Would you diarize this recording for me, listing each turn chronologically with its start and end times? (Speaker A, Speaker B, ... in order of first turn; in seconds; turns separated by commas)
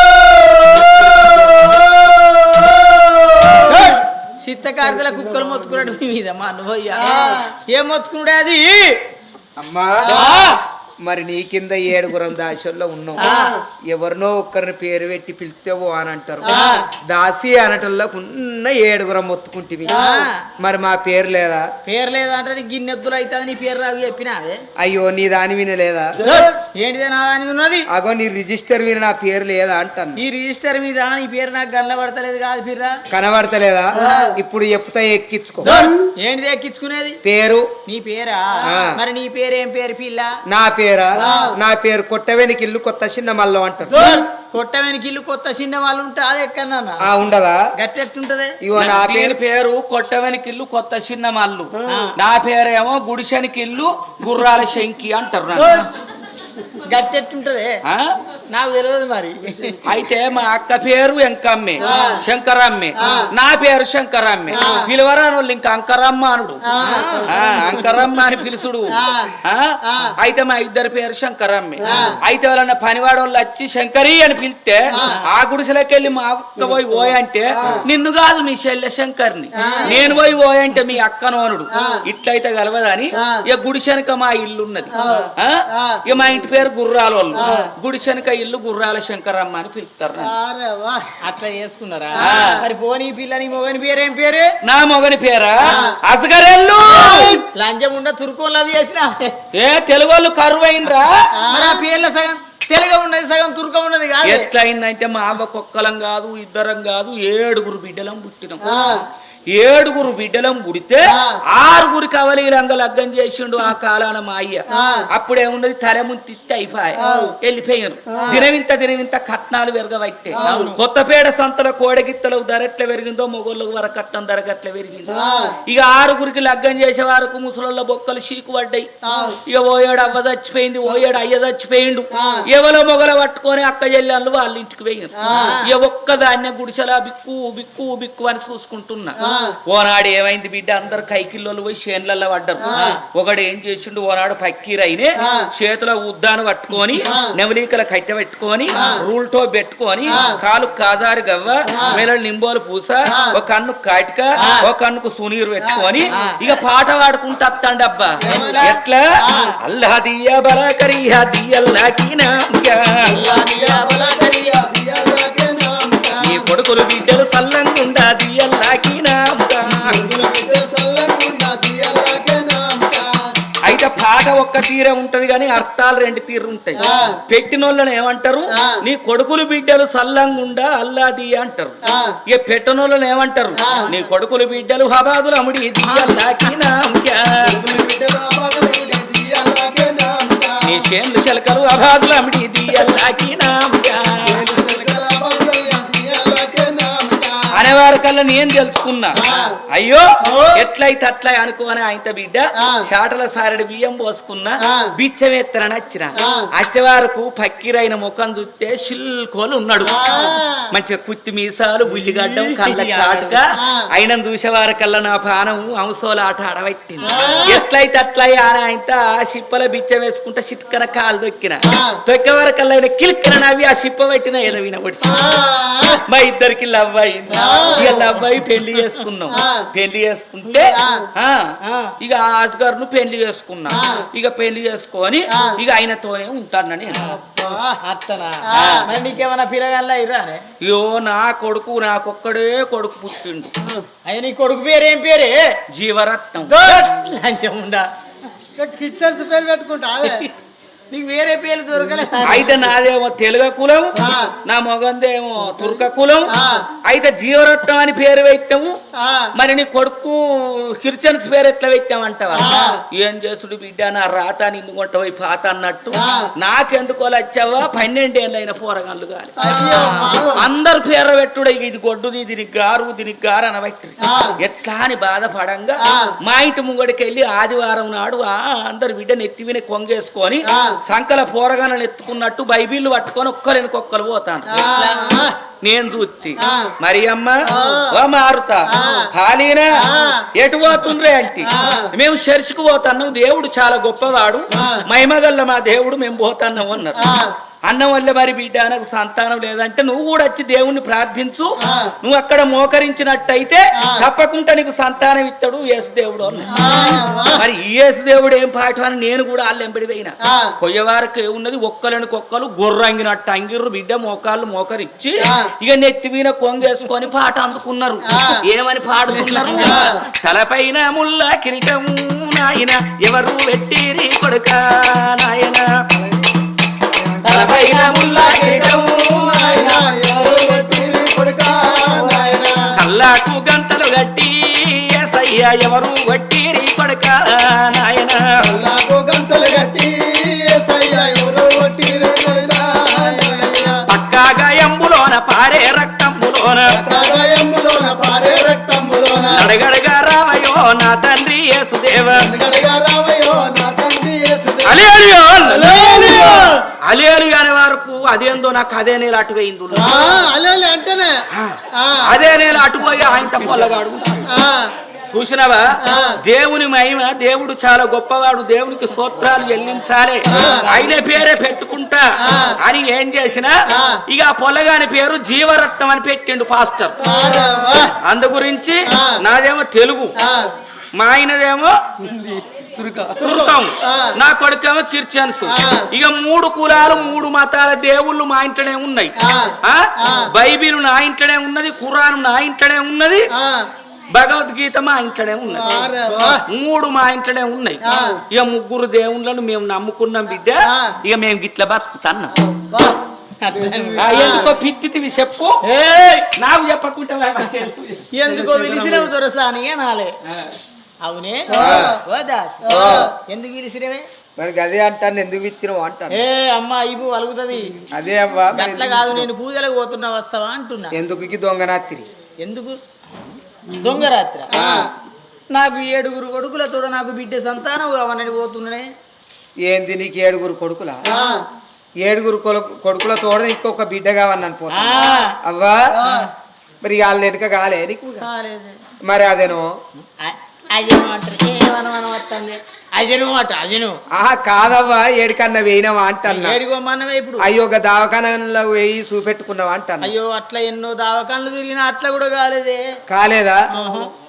Speaker A: 0.8-1.7, Speaker B: 1.1-1.8, Speaker C: 2.4-3.0, Speaker D: 3.6-9.0, Speaker C: 7.0-7.5, Speaker B: 9.6-10.3, Speaker C: 10.0-10.4, Speaker D: 10.1-10.6, Speaker B: 11.0-13.2, Speaker D: 13.2-13.6, Speaker C: 13.2-13.6, Speaker B: 13.9-20.0, Speaker C: 16.4-16.7, Speaker D: 16.5-16.8, Speaker D: 19.9-20.3, Speaker C: 19.9-20.2, Speaker B: 20.6-21.6, Speaker D: 21.8-24.6, Speaker B: 24.8-26.1, Speaker D: 26.2-27.9, Speaker B: 27.9-30.2, Speaker D: 30.1-33.0, Speaker B: 33.1-35.7, Speaker C: 33.9-34.3, Speaker D: 35.6-37.2, Speaker B: 37.2-37.7, Speaker D: 37.9-40.4, Speaker B: 38.6-38.9, Speaker B: 40.5-44.1, Speaker C: 41.2-41.6, Speaker D: 43.9-47.0, Speaker C: 43.9-44.2, Speaker B: 47.0-47.6, Speaker D: 47.8-48.5, Speaker B: 48.6-49.4, Speaker A: 48.8-55.9, Speaker D: 51.9-52.1, Speaker C: 55.5-55.9, Speaker D: 56.9-57.8, Speaker A: 57.8-58.1, Speaker D: 58.5-59.8, Speaker A: 59.8-66.6, Speaker C: 61.8-62.2, Speaker D: 61.8-62.2, Speaker C: 63.0-63.3, Speaker D: 63.0-63.2, Speaker C: 64.5-64.9, Speaker C: 66.6-68.1, Speaker D: 66.8-67.8, Speaker A: 67.3-90.3, Speaker C: 68.9-69.3, Speaker C: 69.8-70.1, Speaker C: 71.8-72.2, Speaker D: 71.9-72.2, Speaker C: 79.6-80.0, Speaker D: 79.6-80.0, Speaker C: 81.7-82.0, Speaker C: 84.9-86.0, Speaker D: 85.0-85.3, Speaker C: 87.4-87.6, Speaker D: 87.4-87.7, Speaker C: 90.2-91.1, Speaker D: 91.2-94.5, Speaker C: 92.2-92.6, Speaker A: 92.2-92.6, Speaker A: 94.6-97.4, Speaker D: 95.6-95.9, Speaker D: 97.1-99.3, Speaker A: 99.5-101.3, Speaker C: 101.3-101.8, Speaker D: 101.5-104.5, Speaker A: 104.2-108.9, Speaker C: 108.6-109.0, Speaker A: 109.5-125.1, Speaker C: 111.0-111.4, Speaker C: 114.7-115.1, Speaker C: 117.0-117.3, Speaker C: 118.1-118.5, Speaker C: 120.3-120.7, Speaker D: 120.4-120.8, Speaker C: 125.1-125.5, Speaker A: 125.7-128.9, Speaker C: 129.0-129.4, Speaker A: 129.4-159.1, Speaker C: 132.1-132.5, Speaker C: 135.2-135.5, Speaker D: 135.3-135.7, Speaker C: 139.2-139.6, Speaker C: 142.6-142.9, Speaker D: 142.7-143.0, Speaker C: 145.2-145.5, Speaker C: 147.0-147.3, Speaker C: 148.7-149.0, Speaker C: 150.1-150.3, Speaker C: 151.7-152.0, Speaker C: 153.1-153.4, Speaker D: 154.4-154.6, Speaker C: 155.6-156.1, Speaker D: 156.1-156.4, Speaker C: 158.2-158.8, Speaker D: 158.2-159.5, Speaker A: 159.6-163.0, Speaker D: 163.0-164.7, Speaker C: 163.0-166.4, Speaker A: 166.2-170.0, Speaker C: 169.8-173.3, Speaker A: 173.6-187.6, Speaker C: 176.8-177.2, Speaker C: 181.8-182.2, Speaker C: 183.6-183.9, Speaker D: 185.8-186.5, Speaker C: 187.4-190.8, Speaker A: 190.6-194.5, Speaker C: 194.2-197.5, Speaker A: 197.5-210.0, Speaker C: 199.2-199.6, Speaker C: 200.2-200.6, Speaker C: 202.6-202.9, Speaker C: 204.6-204.9, Speaker C: 206.2-206.5, Speaker C: 209.8-210.7, Speaker D: 210.1-210.4, Speaker A: 210.7-225.4, Speaker D: 212.0-213.4, Speaker C: 213.5-213.9, Speaker C: 217.0-217.6, Speaker D: 217.1-217.4, Speaker C: 221.7-222.0, Speaker C: 225.0-226.0, Speaker A: 225.9-231.5, Speaker C: 227.3-228.1, Speaker C: 229.3-229.7, Speaker C: 230.7-231.1, Speaker D: 231.6-231.9, Speaker A: 232.0-237.0, Speaker C: 233.7-234.0, Speaker C: 235.3-235.6, Speaker D: 237.0-240.4, Speaker C: 237.0-237.8, Speaker C: 238.4-238.9, Speaker A: 238.5-238.9, Speaker A: 240.6-243.5, Speaker D: 244.1-245.4, Speaker A: 245.7-246.8, Speaker D: 246.5-247.9, Speaker C: 248.6-250.2, Speaker D: 250.0-250.3, Speaker D: 250.9-252.5, Speaker A: 252.2-258.8, Speaker C: 253.9-254.3, Speaker C: 256.3-256.7, Speaker C: 258.9-259.3, Speaker A: 259.3-284.7, Speaker C: 262.3-262.8, Speaker D: 262.4-262.7, Speaker C: 265.9-266.3, Speaker C: 269.4-270.4, Speaker D: 269.6-270.2, Speaker C: 274.0-274.4, Speaker C: 275.8-276.1, Speaker C: 280.5-280.8, Speaker C: 284.5-285.3, Speaker D: 284.7-285.3, Speaker A: 285.6-297.1, Speaker C: 286.4-286.7, Speaker C: 287.4-288.0, Speaker C: 288.7-289.1, Speaker C: 289.8-290.3, Speaker C: 291.4-291.9, Speaker C: 294.5-294.8, Speaker C: 297.0-297.3, Speaker A: 297.7-325.7, Speaker C: 301.6-301.9, Speaker C: 303.8-304.1, Speaker C: 306.5-307.4, Speaker C: 310.2-310.5, Speaker C: 315.2-315.5, Speaker C: 318.1-318.4, Speaker D: 319.1-319.9, Speaker C: 319.5-320.0, Speaker D: 327.2-330.8, Speaker A: 327.2-328.6, Speaker C: 328.4-332.7, Speaker D: 331.7-332.6, Speaker A: 332.7-338.4, Speaker C: 338.4-343.8, Speaker D: 342.8-343.5, Speaker A: 343.9-346.8, Speaker C: 346.7-349.5, Speaker A: 349.3-352.3, Speaker C: 352.1-354.8, Speaker A: 354.6-360.1, Speaker C: 355.4-356.6, Speaker C: 359.7-362.1, Speaker A: 361.3-364.3, Speaker C: 364.3-364.7, Speaker A: 365.1-373.5, Speaker C: 365.8-366.2, Speaker C: 370.3-370.8, Speaker D: 370.3-370.9, Speaker C: 372.2-372.6, Speaker C: 373.7-374.0, Speaker A: 374.1-377.0, Speaker C: 377.0-377.9, Speaker A: 378.0-380.2, Speaker C: 378.9-379.2, Speaker C: 380.2-380.5, Speaker A: 380.9-393.3, Speaker C: 383.2-384.1, Speaker C: 385.5-385.9, Speaker C: 389.2-390.3, Speaker C: 393.3-393.7, Speaker A: 394.1-402.3, Speaker C: 395.5-396.4, Speaker C: 397.8-398.2, Speaker C: 400.6-400.9, Speaker C: 402.3-403.0, Speaker D: 403.4-404.1, Speaker C: 404.0-404.5, Speaker A: 404.0-405.6, Speaker D: 405.6-406.3, Speaker A: 406.4-409.1, Speaker D: 408.1-410.1, Speaker D: 411.0-414.0, Speaker C: 411.5-412.0, Speaker B: 411.6-412.0, Speaker C: 412.7-413.1, Speaker B: 412.7-413.1, Speaker B: 414.4-416.2, Speaker D: 416.1-417.8, Speaker B: 417.9-419.3, Speaker D: 418.5-420.9, Speaker B: 420.9-422.1, Speaker D: 422.4-422.8, Speaker D: 423.7-424.5, Speaker C: 424.5-424.9, Speaker B: 424.5-424.9, Speaker D: 425.5-428.9, Speaker B: 429.6-431.0, Speaker C: 431.0-431.4, Speaker B: 432.0-435.8, Speaker D: 434.7-435.4, Speaker C: 435.9-436.3, Speaker B: 436.8-438.2, Speaker D: 438.2-438.8, Speaker B: 439.0-439.7, Speaker D: 440.2-444.0, Speaker B: 444.1-446.6, Speaker D: 446.3-447.4, Speaker B: 447.4-450.1, Speaker D: 450.0-452.8, Speaker B: 453.1-453.6, Speaker D: 453.7-454.1